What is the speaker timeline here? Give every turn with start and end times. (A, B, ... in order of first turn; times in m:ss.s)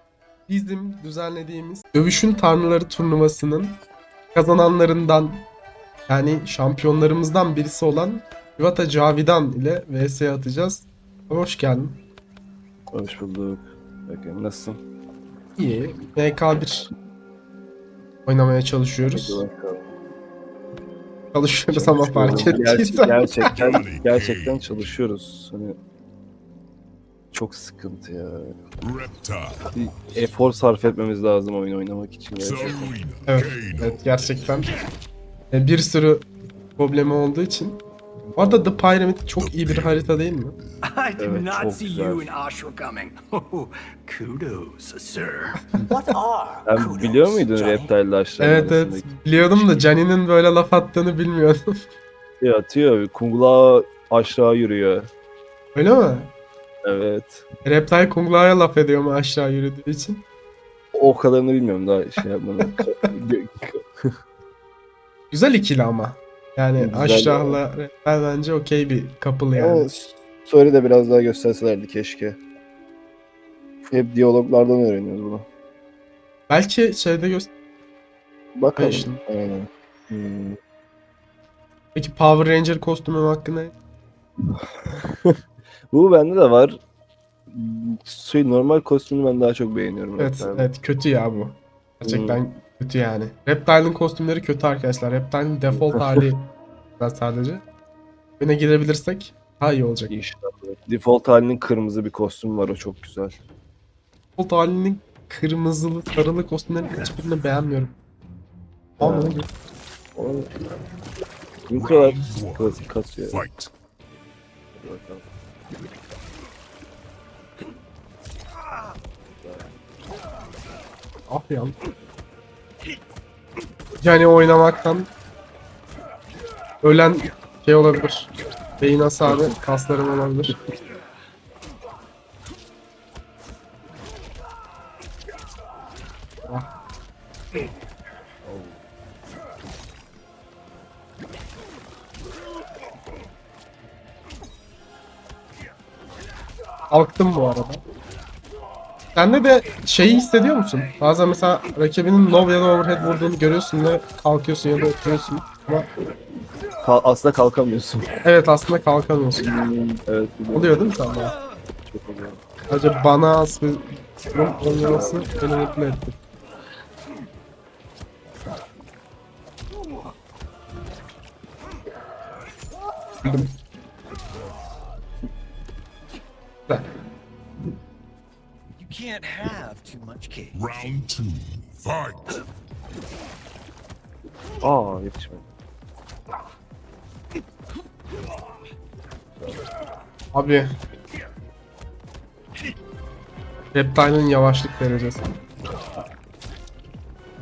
0:00.5-0:03.8 A
0:04.3-0:05.5 A
0:06.1-0:12.0 A
0:12.9-0:14.8 B
0:15.6-0:16.9 A
0:18.2-0:19.4 A
0:19.1-0:19.9 B
0:21.3-0:23.7 A
0:21.7-0:25.8 B
0:23.5-0:24.6 C
0:27.3-0:28.6 B
0:28.8-0:29.7 C
0:29.7-0:32.9 B
0:32.4-0:34.3 C
0:33.3-0:34.7 A
0:35.5-0:37.8 A
0:38.3-0:38.8 B
0:38.4-0:40.6 A
0:39.4-0:40.2 C
0:40.9-0:47.9 D
0:41.2-0:42.3 B
0:46.6-0:49.1 B
0:48.4-0:51.6 A
0:52.4-0:55.1 B
0:55.7-0:56.3 A
0:56.8-0:57.5 B
0:57.6-1:00.2 A
1:00.9-1:04.1 B
1:05.3-1:09.9 A
1:06.8-1:07.6 B
1:09.5-1:12.4 B
1:13.8-1:15.4 B
1:16.5-1:17.5 A
1:18.6-1:20.6 B
1:18.8-1:19.2 A
1:21.9-1:23.7 A
1:24.5-1:25.4 B
1:25.9-1:26.8 B
1:27.5-1:30.7 B
1:30.2-1:37.6 A
1:32.0-1:32.4 B
1:35.8-1:36.2 B
1:38.4-1:40.1 A
1:40.1-1:43.4 B
1:44.4-1:48.0 A
1:49.0-1:49.4 B
1:49.0-1:49.5 A
1:50.1-1:50.5 B
1:51.7-1:53.4 B
1:51.7-1:52.8 C
1:53.3-1:53.7 C
1:54.8-1:55.2 B
1:59.4-1:59.6 B
2:01.3-2:01.8 A
2:04.0-2:05.1 A
2:06.8-2:10.6 A
2:09.2-2:09.5 B
2:18.4-2:18.7 B
2:26.9-2:27.8 A
2:29.1-2:35.9 A
2:36.8-2:38.1 B
2:38.2-2:39.5 A
2:39.4-2:40.9 B
2:40.5-2:41.3 A
2:41.9-2:42.4 B
2:42.7-2:46.2 A
2:44.7-2:45.3 B
2:53.2-2:53.5 A
2:58.8-3:00.6 D
3:00.5-3:02.4 C
3:04.6-3:05.4 B
3:10.3-3:10.7 A
3:13.7-3:15.3 A